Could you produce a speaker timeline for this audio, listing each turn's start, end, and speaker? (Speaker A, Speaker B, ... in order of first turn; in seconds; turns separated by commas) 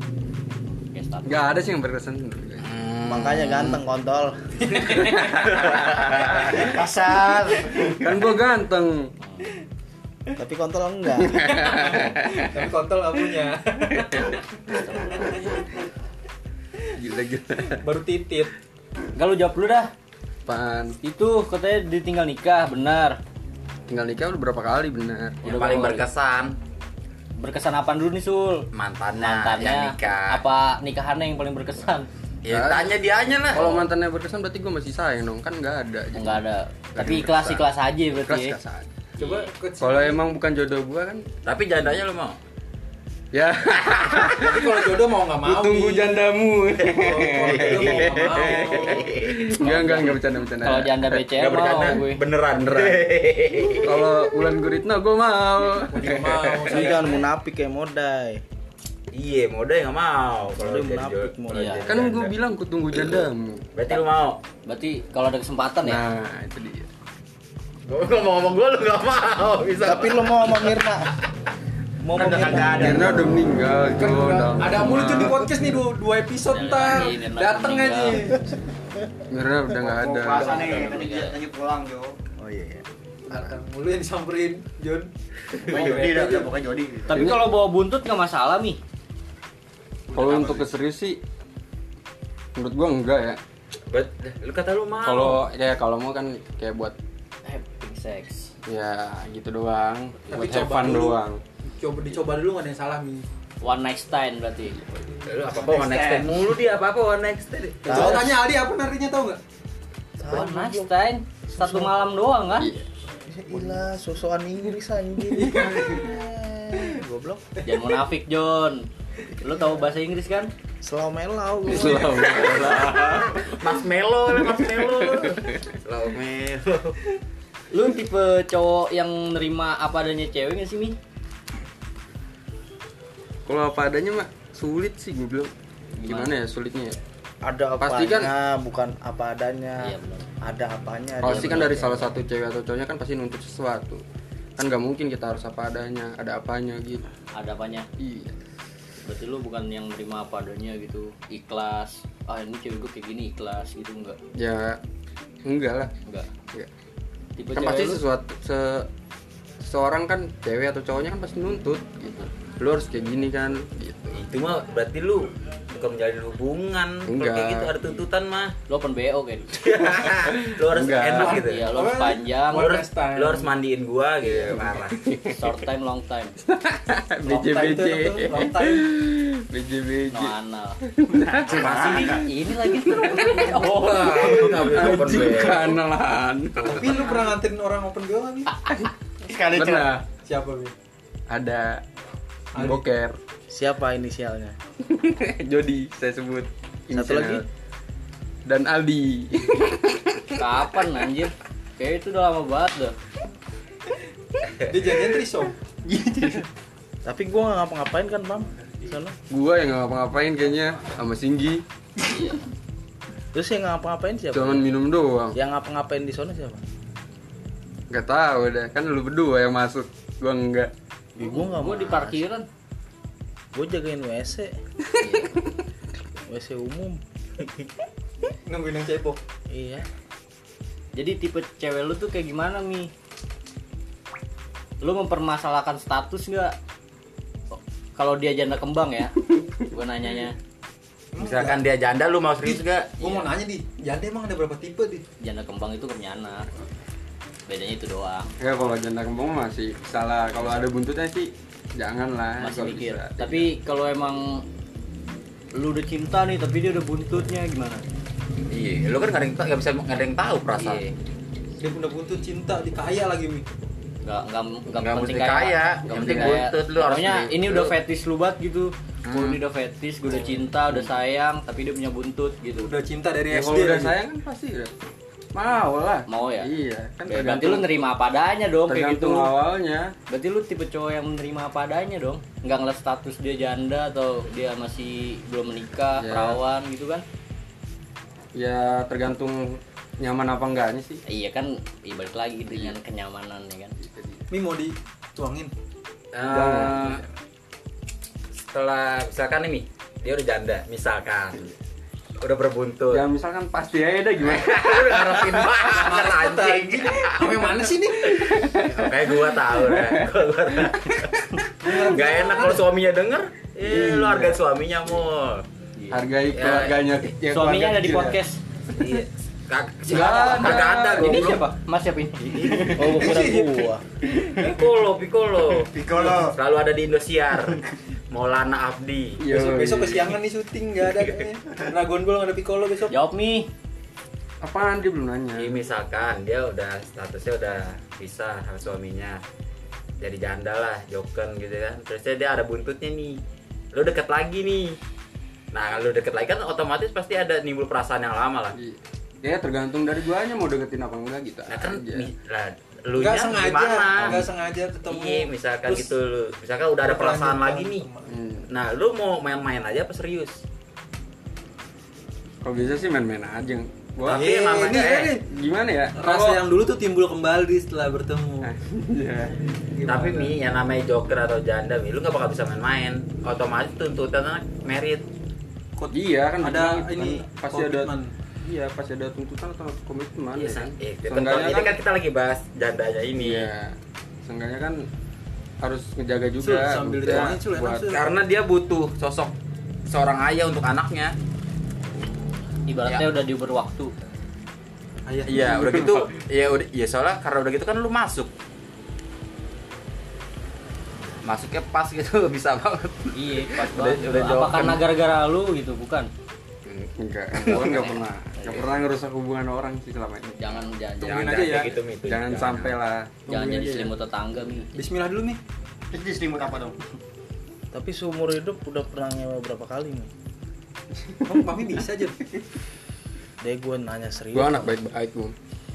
Speaker A: 0.7-1.7, Speaker B: 1.2-2.7, Speaker C: 2.6-3.8, Speaker D: 3.0-4.4, Speaker E: 4.6-6.0, Speaker C: 5.1-6.7, Speaker F: 6.3-8.0, Speaker B: 7.8-9.1, Speaker A: 9.2-9.5, Speaker D: 10.3-11.4, Speaker B: 11.2-12.6, Speaker E: 11.4-15.6, Speaker B: 16.9-17.8, Speaker E: 17.7-18.5, Speaker A: 19.1-19.9, Speaker B: 20.4-20.9, Speaker A: 21.0-23.2, Speaker B: 23.9-25.7, Speaker A: 25.4-26.0, Speaker C: 25.4-26.6, Speaker A: 27.4-32.1, Speaker C: 28.7-30.4, Speaker C: 32.4-33.8, Speaker B: 32.5-32.9, Speaker B: 33.5-36.4, Speaker A: 36.1-38.5, Speaker B: 36.9-37.7, Speaker B: 38.2-38.9, Speaker E: 39.2-40.2, Speaker A: 39.2-39.5, Speaker B: 39.8-41.2, Speaker C: 41.4-42.4, Speaker B: 43.3-44.8, Speaker C: 43.8-44.6, Speaker E: 44.4-46.2, Speaker B: 45.4-51.3, Speaker C: 46.8-49.4, Speaker E: 46.9-49.1, Speaker A: 49.6-52.2, Speaker C: 51.4-54.1, Speaker B: 52.6-53.1, Speaker B: 53.8-56.7, Speaker E: 55.9-57.3, Speaker D: 56.7-58.4, Speaker C: 59.1-62.3, Speaker D: 60.6-61.8, Speaker A: 61.5-61.9, Speaker B: 61.9-63.7, Speaker C: 63.0-63.2, Speaker C: 63.8-64.4, Speaker A: 64.6-66.0, Speaker B: 65.8-66.9, Speaker C: 67.9-70.8, Speaker D: 69.8-71.2, Speaker D: 72.0-73.5, Speaker F: 72.1-73.2, Speaker B: 72.7-75.5, Speaker E: 73.9-78.4, Speaker A: 76.5-78.3, Speaker B: 79.3-80.9, Speaker F: 79.8-82.1, Speaker A: 80.3-81.4, Speaker D: 82.4-82.8, Speaker E: 83.3-85.1, Speaker C: 85.6-86.0, Speaker F: 85.7-87.2, Speaker E: 85.7-86.5, Speaker A: 87.1-88.8, Speaker B: 87.1-87.5, Speaker B: 90.1-91.2, Speaker F: 90.1-90.7, Speaker B: 92.5-93.4, Speaker C: 93.9-95.4, Speaker B: 95.0-96.9, Speaker A: 97.4-98.5, Speaker B: 98.7-101.4, Speaker E: 100.3-101.2, Speaker E: 101.8-103.2, Speaker A: 103.6-105.0, Speaker C: 105.2-108.1, Speaker F: 105.8-106.0, Speaker E: 107.8-109.4, Speaker D: 107.8-108.4, Speaker D: 110.2-110.9, Speaker A: 110.3-112.7, Speaker D: 111.5-111.9, Speaker B: 112.5-112.8, Speaker D: 113.3-117.5, Speaker E: 115.4-116.0, Speaker A: 117.6-118.9, Speaker A: 119.4-120.5, Speaker D: 119.4-119.8, Speaker D: 120.8-122.4, Speaker B: 121.7-123.6, Speaker C: 122.0-127.0, Speaker B: 124.3-125.7, Speaker A: 127.7-131.0, Speaker B: 133.4-137.0, Speaker A: 136.0-136.3, Speaker D: 137.4-142.1, Speaker B: 137.8-138.3, Speaker A: 139.8-140.2, Speaker B: 141.2-144.0, Speaker A: 141.3-141.7, Speaker B: 144.6-147.1, Speaker A: 147.3-147.9, Speaker B: 148.0-148.3, Speaker A: 149.0-154.2, Speaker B: 154.4-154.8, Speaker B: 155.4-155.9, Speaker A: 157.4-158.0, Speaker B: 157.5-158.9, Speaker B: 159.6-164.2, Speaker C: 164.1-168.5, Speaker B: 167.0-167.8, Speaker A: 168.7-169.5, Speaker C: 169.5-171.7, Speaker B: 170.0-171.4, Speaker E: 171.1-173.5, Speaker A: 171.4-172.8, Speaker C: 172.5-175.0, Speaker B: 174.3-175.6, Speaker A: 175.3-176.3, Speaker B: 176.4-181.9, Speaker E: 177.2-178.9, Speaker A: 180.1-180.8, Speaker F: 181.4-182.2, Speaker C: 181.4-182.2, Speaker A: 181.6-184.9, Speaker B: 182.5-187.1, Speaker C: 183.1-185.8, Speaker E: 186.6-188.5, Speaker F: 189.2-189.9, Speaker B: 189.5-190.0, Speaker E: 190.2-190.7, Speaker B: 191.3-191.8, Speaker E: 192.5-192.8, Speaker B: 192.6-193.2, Speaker D: 193.5-194.6, Speaker B: 194.8-197.4, Speaker D: 196.9-197.4, Speaker B: 198.4-200.5, Speaker A: 200.4-202.9, Speaker E: 204.7-206.4, Speaker D: 207.0-209.2, Speaker B: 209.3-211.6, Speaker A: 212.1-212.4, Speaker D: 213.3-214.7, Speaker B: 214.3-215.4, Speaker D: 215.3-216.6, Speaker B: 217.9-220.7, Speaker D: 221.2-222.2, Speaker A: 221.2-222.4, Speaker D: 223.5-224.5, Speaker A: 225.0-225.4, Speaker D: 226.3-227.0, Speaker E: 228.4-229.2, Speaker D: 229.5-229.8, Speaker A: 230.9-232.9, Speaker A: 234.8-236.6, Speaker A: 237.5-240.4, Speaker E: 241.1-241.7, Speaker C: 241.2-243.3, Speaker E: 242.4-245.0, Speaker A: 245.2-246.5, Speaker A: 247.5-248.3, Speaker B: 248.4-253.5, Speaker A: 252.4-254.4, Speaker A: 255.6-257.8, Speaker C: 258.5-260.9, Speaker E: 261.6-263.4, Speaker A: 264.0-272.7, Speaker C: 264.7-267.7, Speaker B: 265.9-266.4, Speaker C: 269.1-269.4, Speaker E: 272.6-274.0, Speaker B: 273.3-274.7, Speaker B: 275.3-277.7, Speaker A: 276.1-276.5, Speaker A: 277.1-279.3, Speaker C: 277.1-277.4, Speaker B: 278.6-279.9, Speaker A: 280.1-287.0, Speaker B: 285.9-286.4, Speaker B: 288.3-291.0, Speaker A: 291.1-293.8, Speaker B: 293.8-294.2, Speaker E: 294.3-295.5, Speaker C: 296.1-297.0, Speaker B: 296.2-297.0, Speaker C: 298.4-301.5, Speaker C: 302.2-303.0, Speaker B: 302.9-305.6, Speaker C: 304.3-315.4, Speaker E: 305.6-308.2, Speaker B: 308.3-310.1, Speaker B: 310.7-311.1, Speaker E: 311.6-312.6, Speaker B: 313.6-314.4, Speaker A: 315.8-316.1, Speaker B: 315.9-318.2, Speaker C: 316.3-316.8, Speaker A: 317.3-318.4, Speaker C: 318.7-321.5, Speaker B: 319.9-321.4, Speaker A: 319.9-323.1, Speaker E: 319.9-321.3, Speaker E: 322.4-323.6, Speaker D: 322.7-323.8, Speaker C: 324.3-329.2, Speaker F: 325.6-326.3, Speaker B: 329.2-330.1, Speaker E: 329.3-332.9, Speaker A: 332.9-333.5, Speaker B: 334.4-335.6, Speaker C: 335.4-339.2, Speaker C: 340.0-343.2, Speaker C: 343.7-344.8, Speaker C: 345.5-348.6, Speaker B: 348.5-352.1, Speaker C: 351.5-354.3, Speaker E: 352.9-355.9, Speaker B: 354.0-354.2, Speaker C: 354.9-357.9, Speaker E: 356.8-358.1, Speaker B: 358.1-358.5, Speaker C: 358.5-360.4, Speaker B: 362.4-364.3, Speaker C: 364.0-365.1, Speaker E: 364.0-365.2, Speaker B: 365.2-366.4, Speaker E: 365.9-368.5, Speaker B: 368.4-369.3, Speaker E: 369.8-370.3, Speaker C: 369.9-375.0, Speaker E: 375.8-378.1, Speaker B: 375.9-377.9, Speaker B: 378.4-381.8, Speaker C: 380.3-383.5, Speaker B: 383.1-384.9, Speaker B: 385.6-387.9, Speaker E: 386.4-388.1, Speaker C: 387.9-389.3, Speaker C: 389.9-391.1, Speaker A: 392.7-393.9, Speaker E: 395.1-395.6, Speaker C: 395.2-398.3, Speaker B: 395.3-396.1, Speaker C: 401.2-404.8, Speaker A: 403.1-406.1, Speaker C: 406.6-407.9, Speaker B: 407.0-413.8, Speaker A: 407.5-408.7, Speaker A: 410.4-411.5, Speaker C: 411.0-412.8, Speaker A: 413.3-414.7, Speaker E: 413.3-413.8, Speaker E: 414.7-415.4, Speaker F: 415.9-416.8, Speaker D: 417.7-420.1, Speaker E: 421.2-422.2, Speaker D: 423.4-424.7, Speaker B: 424.3-425.3